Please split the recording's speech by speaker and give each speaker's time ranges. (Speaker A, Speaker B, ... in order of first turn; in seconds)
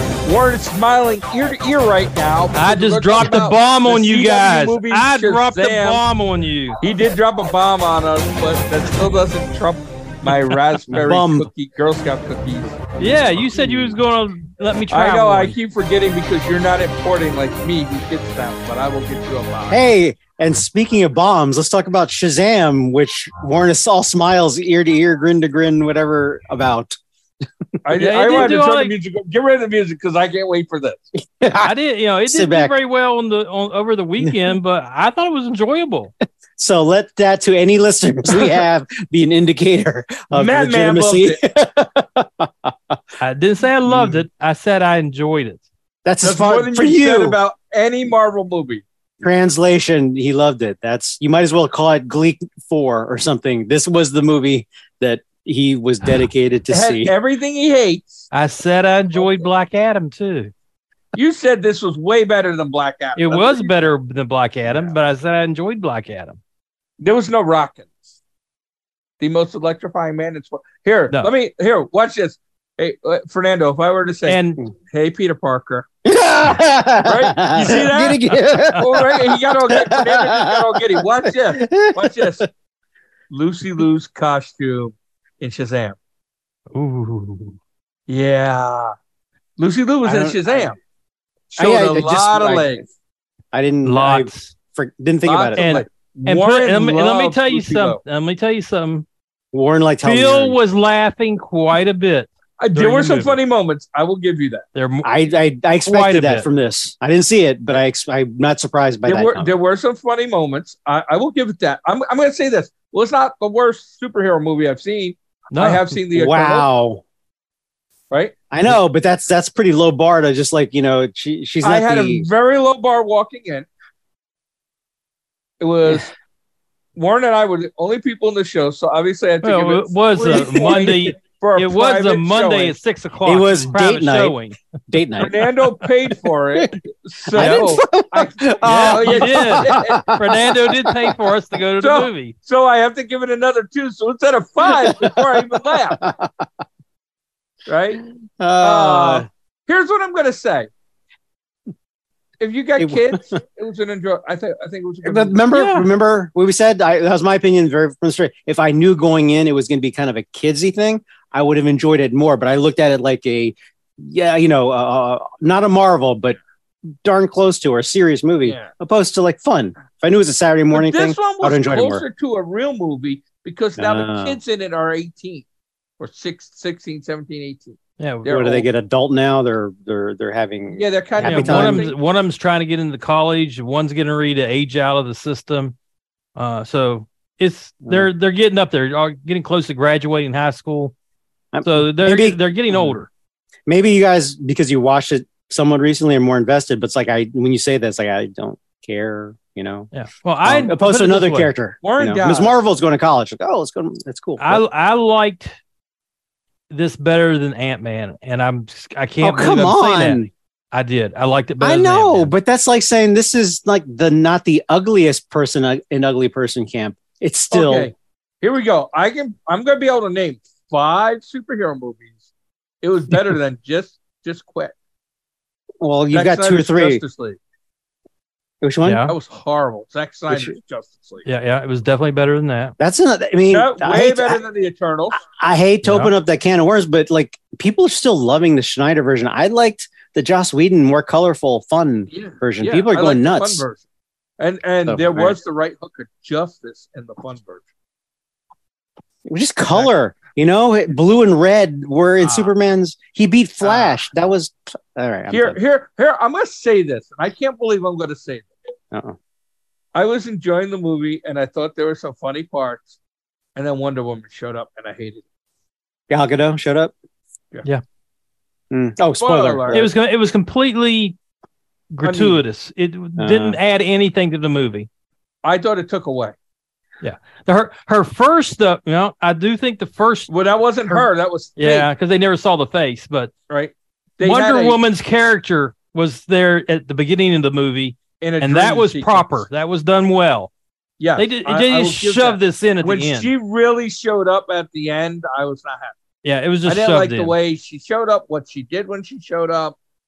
Speaker A: 0.2-6.0, 6.8-13.9, 14.9-19.8, 27.8-31.1, 40.3-41.4, 46.2-48.8, 56.7-58.3, 61.1-63.9, 67.0-68.1, 69.2-75.9, 77.0-82.5, 83.3-86.0, 88.1-88.9, 89.6-90.8, 91.5-92.8, 95.2-98.0, 102.6-104.6, 109.0-116.7, 118.1-118.4, 121.6-123.7, 125.6-126.1, 127.0-132.8, 135.2-140.1, 141.8-146.0, 147.7-148.0, 148.6-150.7, 152.4-155.4, 168.4-168.7, 170.7-175.4, 176.0-178.7, 180.7-181.9, 201.8-202.6, 217.5-222.2, 222.8-224.7, 226.1-227.4, 229.1-231.2, 233.5-235.2, 242.1-243.8, 244.4-247.6, 252.2-252.5, 253.6-254.0, 255.3-258.5, 259.9-262.9, 263.6-265.2, 269.2-269.9, 272.0-272.4, 275.4-276.3, 280.3-281.9, 283.5-284.8, 288.2-289.4, 291.0-295.9, 296.6-299.8
Speaker B: 2.5-6.8, 10.3-10.5, 13.0-15.6, 27.9-28.9, 31.6-36.1, 43.2-45.6, 58.3-60.5, 63.1-66.4, 74.3-74.6, 86.7-87.6, 93.8-94.5, 95.6-99.0, 100.0-103.4, 104.7-105.1, 105.8-106.5, 115.5-115.8, 129.4-134.6, 137.3-137.8, 138.6-142.3, 155.5-155.9, 178.0-178.4, 181.2-185.7, 186.3-190.9, 191.6-193.1, 199.9-201.5, 204.4-205.5, 206.7-212.3, 228.8-229.1, 231.2-232.7, 235.8-236.1, 269.7-271.1, 271.9-274.9, 277.0-280.3, 281.6-283.3, 284.2-290.5, 291.2-293.3, 296.2-297.3
Speaker C: 10.9-11.5, 19.7-27.0, 31.4-31.7, 32.3-32.7, 36.6-43.0, 43.9-44.2, 46.0-47.4, 49.2-57.1, 76.0-82.4, 90.0-90.6, 91.5-92.9, 93.5-95.8, 99.5-100.6, 105.0-109.5, 116.1-117.0, 118.5-122.3, 130.4-130.7, 133.2-134.3, 134.9-135.5, 137.3-141.2, 144.7-146.5, 148.4-149.2, 152.8-153.2, 155.0-166.4, 167.0-172.0, 173.8-174.4, 178.3-181.9, 191.5-193.0, 193.7-199.9, 200.4-204.6, 209.2-210.3, 211.6-217.9, 225.8-227.0, 228.6-229.0, 232.8-234.4, 235.2-243.6, 244.8-245.4, 249.2-255.6, 258.9-259.2, 266.1-266.9, 268.7-269.9, 273.2-273.6